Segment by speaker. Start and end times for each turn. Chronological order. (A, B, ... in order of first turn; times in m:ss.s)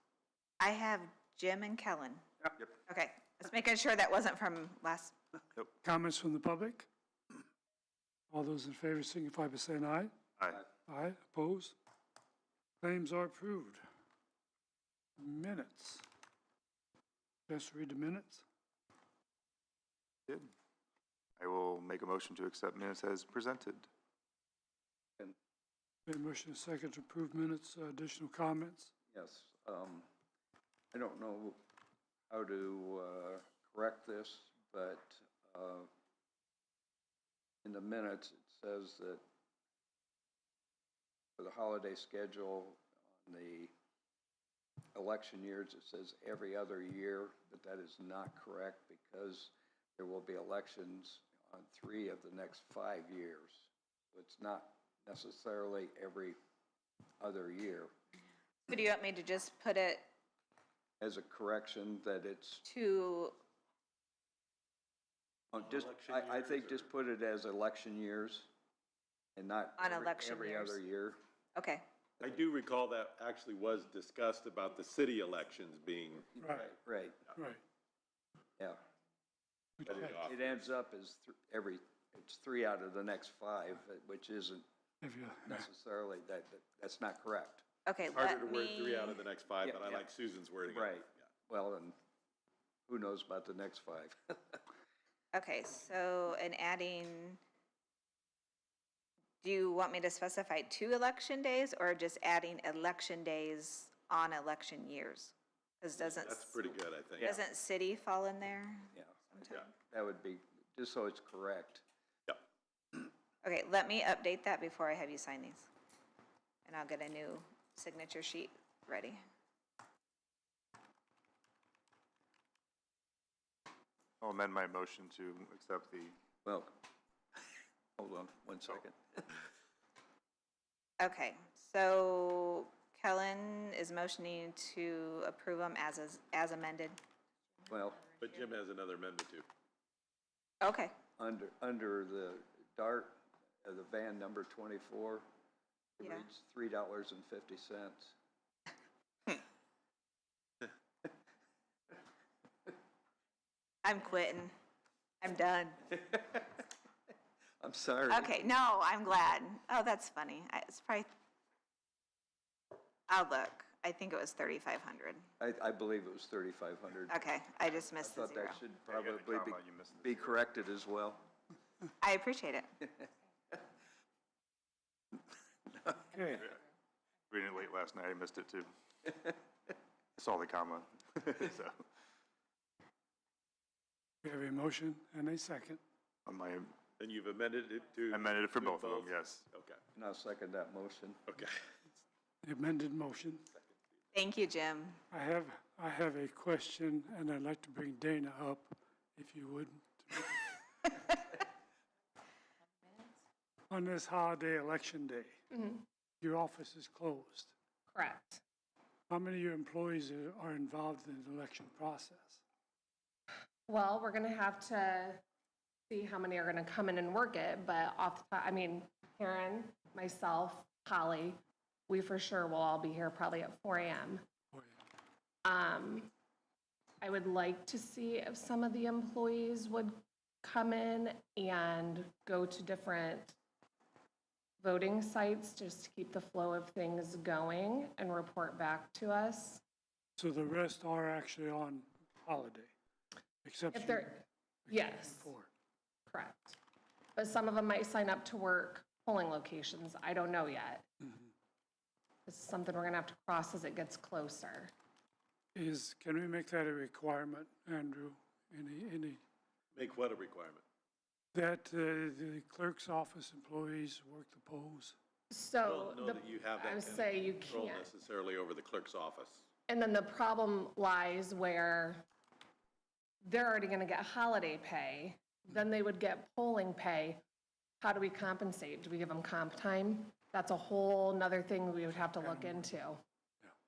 0:00.6-0:02.2 A
0:02.9-0:05.2 A
0:05.8-0:06.9 B
0:08.3-0:10.1 B
0:10.4-0:10.6 C
0:10.9-0:11.8 B
0:12.8-0:13.8 B
0:15.2-0:16.0 B
0:17.5-0:18.4 B
0:21.4-0:23.9 C
0:26.1-0:28.9 B
0:29.1-0:30.1 D
0:30.9-0:31.6 D
0:32.3-0:35.9 D
0:37.6-0:39.2 D
0:41.4-0:43.7 D
0:45.0-0:56.4 D
0:57.2-0:57.9 D
0:58.7-1:00.1 A
1:01.0-1:02.6 D
1:02.6-1:03.4 A
1:05.5-1:08.5 D
1:05.6-1:06.9 E
1:09.4-1:11.2 D
1:09.8-1:10.8 A
1:11.6-1:11.8 A
1:12.2-1:16.3 E
1:16.3-1:17.2 D
1:16.4-1:16.7 B
1:17.4-1:17.6 B
1:19.8-1:20.2 B
1:19.8-1:20.7 E
1:20.1-1:24.6 D
1:25.0-1:25.7 B
1:25.5-1:27.6 D
1:27.8-1:29.2 A
1:28.1-1:31.0 E
1:29.6-1:30.0 D
1:30.7-1:31.9 D
1:32.9-1:34.6 D
1:35.3-1:37.4 A
1:39.4-1:49.6 A
1:46.0-1:47.4 E
1:47.2-1:47.4 D
1:48.9-1:51.8 D
1:53.4-1:55.7 A
1:56.6-1:59.2 A
2:04.2-2:06.2 C
2:06.4-2:06.7 D
2:08.0-2:09.4 D
2:11.0-2:17.0 A
2:17.7-2:18.1 D
2:18.2-2:19.5 E
2:20.6-2:21.0 A
2:21.2-2:25.2 D
2:26.0-2:28.2 D
2:33.8-2:34.5 A
2:35.2-2:35.9 A
2:36.0-2:36.6 D
2:37.6-2:38.5 D
2:38.1-2:41.1 A
2:43.1-2:45.2 A
2:45.4-2:47.2 D
2:47.1-2:48.7 A
2:48.0-2:51.2 D
2:48.9-2:50.4 C
2:52.0-2:52.7 A
2:55.8-2:56.2 D
2:56.1-2:56.4 B
2:57.3-2:58.7 C
3:00.2-3:01.8 C
3:04.2-3:05.8 B
3:06.2-3:06.8 C
3:07.0-3:09.8 E
3:08.1-3:09.5 C
3:10.0-3:11.2 D
3:11.3-3:11.6 E
3:12.4-3:13.4 B
3:14.1-3:15.0 A
3:15.1-3:20.4 B
3:23.7-3:25.3 B
3:25.5-3:25.8 F
3:26.2-3:27.5 B
3:27.9-3:28.4 F
3:29.1-3:32.4 B
3:33.7-3:35.2 F
3:35.9-3:44.2 F
3:45.4-3:46.1 F
3:47.0-3:53.4 F
3:54.6-3:59.6 F
4:00.2-4:02.7 B
4:03.4-4:04.2 B
4:03.7-4:05.3 F
4:04.7-4:05.5 B
4:06.1-4:06.6 F
4:07.2-4:10.9 F
4:12.2-4:14.7 F
4:15.6-4:19.2 B
4:19.7-4:20.6 E
4:21.3-4:24.9 B
4:25.3-4:27.9 F
4:25.6-4:29.4 E
4:29.7-4:32.1 F
4:33.2-4:37.2 F
4:37.8-4:43.0 F
4:42.2-4:42.6 B